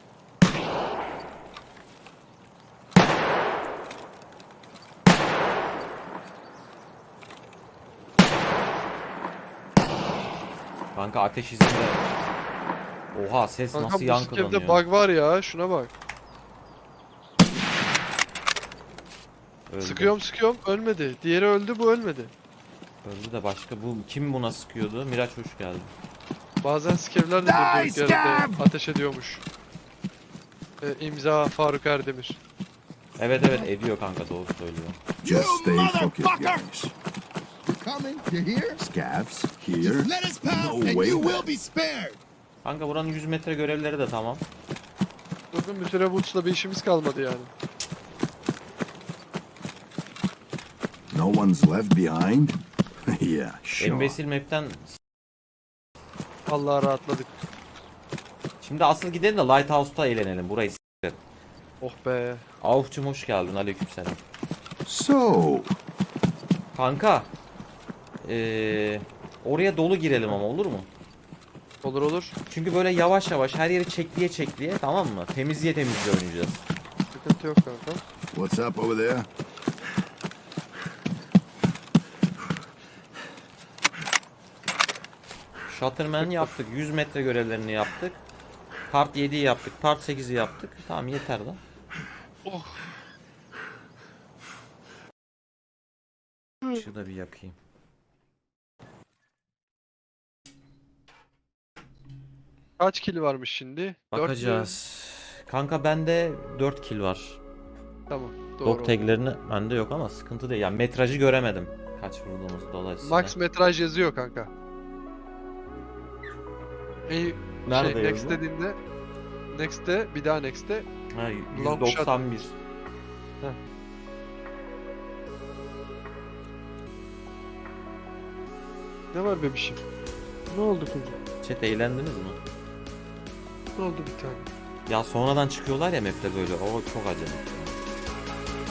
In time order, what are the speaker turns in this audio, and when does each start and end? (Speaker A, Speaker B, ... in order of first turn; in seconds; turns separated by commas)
Speaker A: 10.9-12.0, Speaker A: 13.1-14.8, Speaker B: 13.7-15.9, Speaker A: 19.7-20.1, Speaker B: 19.8-22.3, Speaker A: 23.0-25.9, Speaker B: 26.6-29.4, Speaker C: 27.6-28.6, Speaker D: 27.7-28.1, Speaker B: 30.8-32.4, Speaker A: 33.2-35.0, Speaker C: 35.2-36.6, Speaker D: 35.2-36.9, Speaker C: 37.6-38.8, Speaker D: 38.8-41.5, Speaker C: 39.8-42.2, Speaker A: 42.6-44.4, Speaker B: 45.5-47.5, Speaker D: 51.1-54.2, Speaker A: 53.8-55.0, Speaker B: 56.5-57.4, Speaker A: 58.6-61.2, Speaker B: 61.8-62.4, Speaker A: 62.6-64.2, Speaker D: 64.8-65.8, Speaker A: 66.7-67.3, Speaker A: 68.2-70.9, Speaker B: 71.8-72.3, Speaker A: 72.5-76.6, Speaker B: 77.1-78.0, Speaker D: 78.3-79.3, Speaker A: 85.7-88.2, Speaker B: 86.2-86.5, Speaker A: 88.9-91.6, Speaker B: 92.4-93.0, Speaker A: 96.7-97.5, Speaker B: 102.8-104.7, Speaker A: 104.1-107.4, Speaker B: 108.1-109.0, Speaker A: 108.6-113.3, Speaker B: 113.0-114.5, Speaker B: 117.1-118.8, Speaker A: 117.7-118.4, Speaker B: 119.5-120.9, Speaker A: 121.1-122.5, Speaker B: 121.5-122.2, Speaker B: 129.1-129.8, Speaker B: 130.5-131.2, Speaker A: 131.4-132.4, Speaker B: 133.8-134.5, Speaker A: 134.9-137.8